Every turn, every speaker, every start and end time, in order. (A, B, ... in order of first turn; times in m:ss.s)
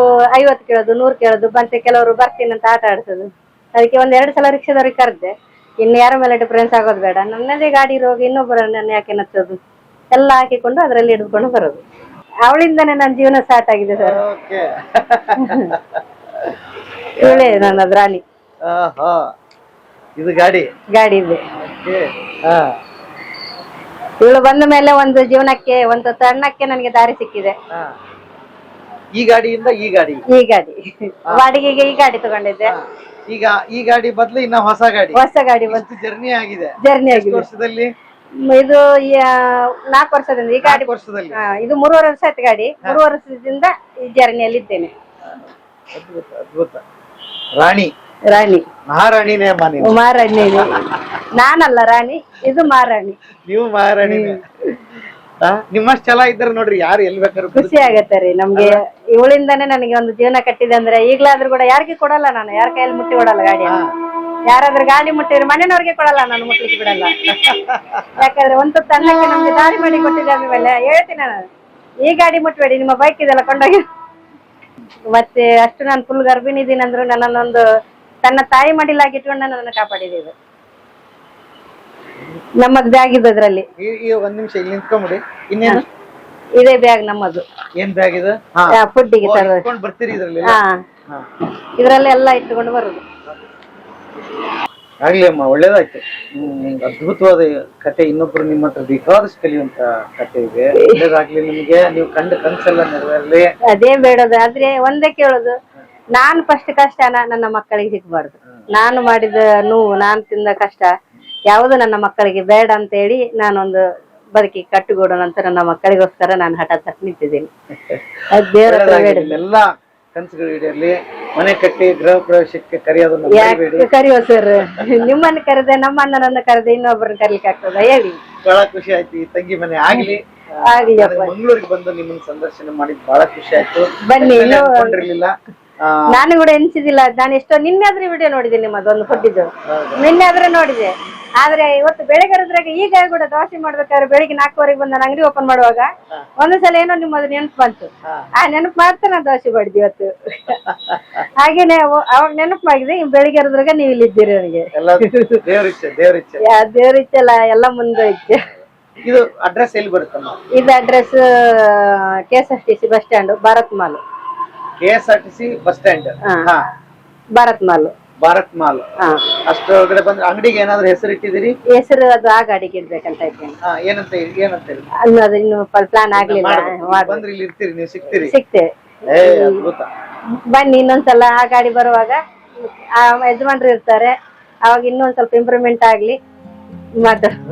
0:00.3-0:09.6 A
0:10.1-0:11.8 A
0:12.4-0:14.2 A
0:14.0-0:16.5 B
0:15.4-0:15.7 A
0:17.2-0:17.8 B
0:17.2-0:18.2 A
0:18.6-0:19.3 B
0:20.2-0:20.7 B
0:20.9-0:21.4 A
0:21.6-0:22.8 B
0:24.2-0:27.6 A
0:29.2-0:30.2 B
0:30.3-0:32.7 A
0:32.6-0:37.9 B
0:35.1-0:35.8 A
0:36.8-0:37.4 A
0:38.5-0:44.9 A
0:40.6-0:41.4 B
0:45.9-0:46.8 B
0:47.6-0:47.9 B
0:48.3-0:48.6 A
0:48.9-0:50.0 B
0:49.8-0:50.8 A
0:50.6-0:51.0 B
0:51.4-0:53.2 A
0:53.4-0:54.4 B
0:54.0-0:54.4 A
0:55.4-0:58.0 B
0:57.5-1:03.8 A
1:03.6-1:03.9 B
1:04.5-1:07.1 A
1:07.3-1:08.1 B
1:08.2-1:11.4 A
1:12.0-1:13.8 A
1:15.1-1:17.6 A
1:18.2-1:20.3 A
1:22.6-1:23.6 A
1:23.8-1:25.8 B
1:26.6-1:27.4 A
1:27.8-1:31.2 B
1:28.7-1:29.7 A
1:30.4-1:30.8 A
1:31.8-1:33.0 A
1:35.0-1:43.5 B
1:43.7-1:45.6 A
1:46.1-1:50.9 A
1:51.5-1:57.5 A
1:57.9-2:03.9 B
1:58.3-1:59.3 A
2:03.3-2:08.2 A
2:08.4-2:16.1 B
2:10.6-2:11.3 A
2:14.0-2:15.0 A
2:16.1-2:30.6 A
2:19.1-2:20.1 B
2:28.0-2:28.3 B
2:30.6-2:31.2 B
2:31.4-2:35.4 A
2:34.7-2:36.4 B
2:36.4-2:38.5 A
2:39.0-2:40.4 B
2:40.5-2:44.0 A
2:44.8-2:46.6 B
2:46.2-2:46.5 A
2:47.4-2:47.9 A
2:48.2-2:48.8 B
2:49.5-2:51.6 B
2:51.7-2:53.6 A
2:53.6-2:54.9 B
2:55.0-2:57.2 A
2:56.2-2:58.3 B
2:58.2-2:59.6 A
2:59.1-2:59.9 B
3:00.3-3:06.2 A
3:07.0-3:07.4 A